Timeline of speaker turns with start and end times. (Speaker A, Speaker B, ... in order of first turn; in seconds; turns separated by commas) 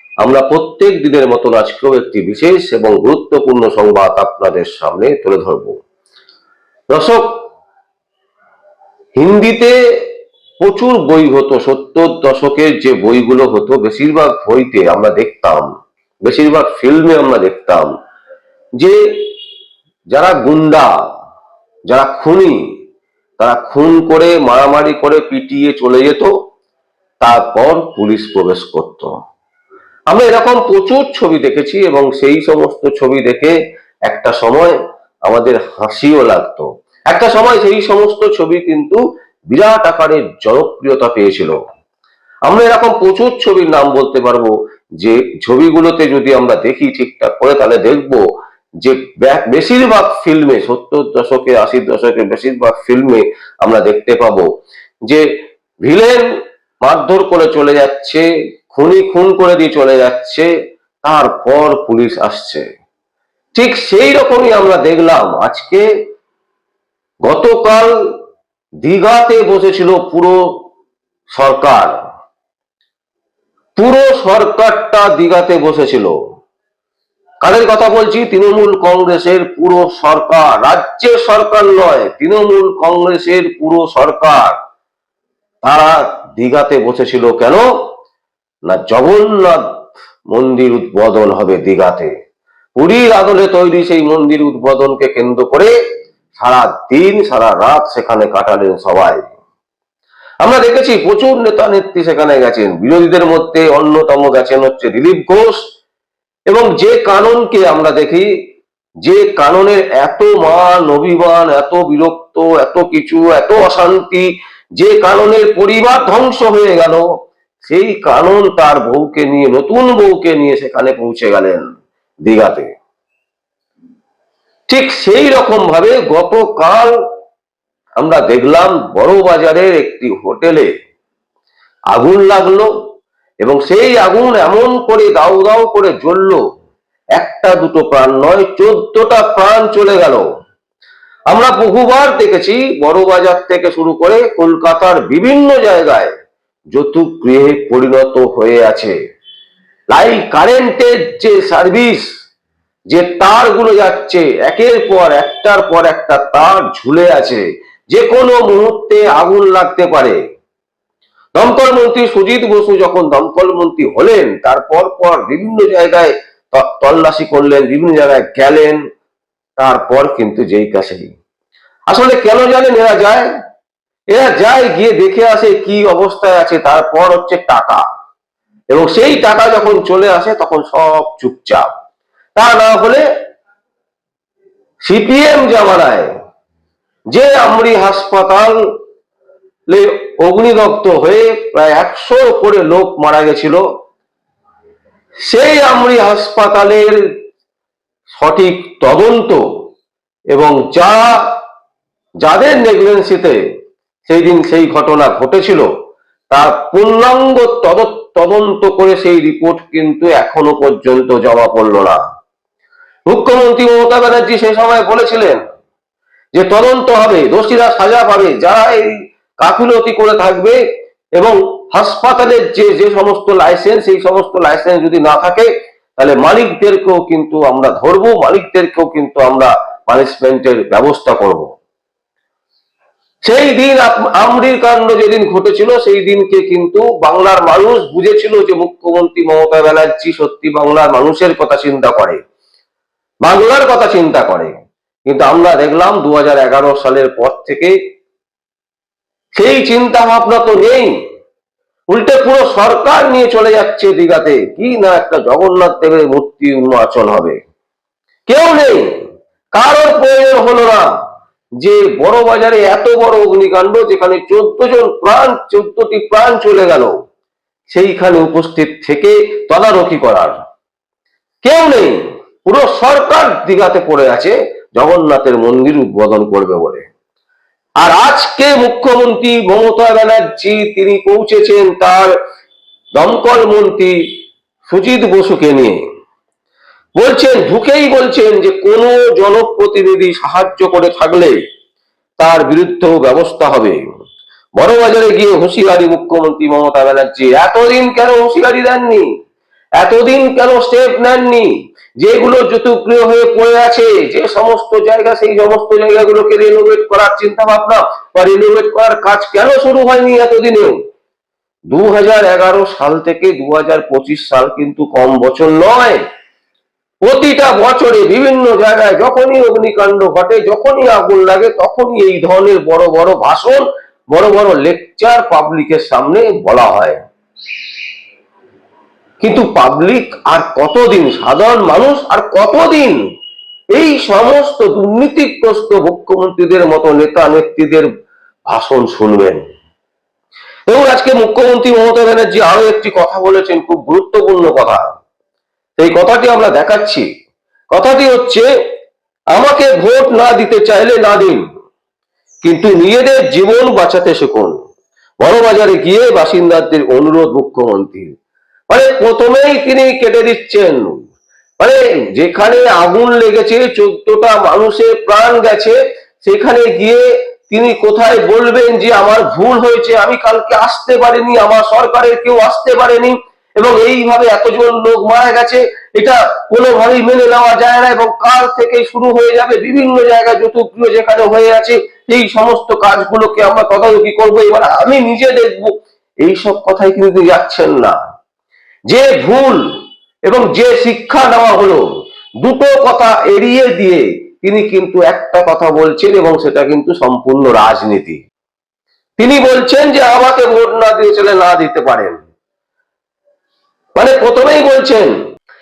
Speaker A: 0.2-5.8, Speaker A: 6.9-7.3, Speaker A: 9.2-9.7, Speaker A: 10.6-15.7, Speaker A: 16.2-17.9, Speaker A: 18.8-19.2, Speaker A: 20.1-20.9, Speaker A: 21.9-22.6, Speaker A: 23.4-26.3, Speaker A: 27.2-29.1, Speaker A: 30.1-33.5, Speaker A: 34.1-41.6, Speaker A: 42.5-48.2, Speaker A: 48.8-54.5, Speaker A: 55.8-56.3, Speaker A: 56.8-60.5, Speaker A: 61.0-62.6, Speaker A: 63.5-65.8, Speaker A: 67.2-68.0, Speaker A: 68.8-70.4, Speaker A: 71.3-71.9, Speaker A: 73.8-76.2, Speaker A: 77.4-84.5, Speaker A: 85.6-87.6, Speaker A: 88.7-89.6, Speaker A: 90.3-92.1, Speaker A: 92.8-95.7, Speaker A: 96.3-99.3, Speaker A: 100.4-105.6, Speaker A: 106.5-108.3, Speaker A: 109.0-117.0, Speaker A: 117.6-121.7, Speaker A: 122.2-122.7, Speaker A: 124.7-127.0, Speaker A: 128.0-130.7, Speaker A: 131.9-132.7, Speaker A: 133.4-136.4, Speaker A: 137.2-140.2, Speaker A: 141.3-146.1, Speaker A: 146.7-148.9, Speaker A: 149.9-152.1, Speaker A: 152.9-160.2, Speaker A: 161.3-168.8, Speaker A: 169.6-171.1, Speaker A: 171.9-173.3, Speaker A: 174.1-177.8, Speaker A: 178.7-181.7, Speaker A: 182.3-183.0, Speaker A: 184.8-186.1, Speaker A: 187.1-188.5, Speaker A: 189.7-193.6, Speaker A: 195.3-197.0, Speaker A: 198.1-199.4, Speaker A: 200.3-201.2, Speaker A: 202.2-203.4, Speaker A: 204.1-205.7, Speaker A: 206.3-212.0, Speaker A: 213.1-215.4, Speaker A: 216.3-220.6, Speaker A: 221.2-231.5, Speaker A: 233.2-242.2, Speaker A: 243.2-244.5, Speaker A: 245.1-247.7, Speaker A: 249.3-251.0, Speaker A: 251.9-257.4, Speaker A: 258.3-258.9, Speaker A: 259.5-260.9, Speaker A: 261.6-266.9, Speaker A: 267.7-270.4, Speaker A: 271.4-276.9, Speaker A: 277.8-282.1, Speaker A: 283.0-283.9, Speaker A: 284.7-285.8, Speaker A: 287.0-291.4, Speaker A: 292.2-293.8, Speaker A: 294.6-299.1, Speaker A: 299.8-310.8, Speaker A: 311.7-316.0, Speaker A: 317.0-327.0, Speaker A: 329.2-333.0, Speaker A: 333.7-337.9, Speaker A: 338.5-339.4, Speaker A: 340.7-344.8, Speaker A: 345.8-347.1, Speaker A: 347.7-348.5, Speaker A: 349.3-351.4, Speaker A: 352.4-354.5, Speaker A: 355.2-358.1, Speaker A: 358.7-361.0, Speaker A: 361.6-388.0, Speaker A: 388.9-389.6, Speaker A: 390.3-391.8, Speaker A: 392.4-398.2, Speaker A: 399.2-402.2, Speaker A: 403.9-405.1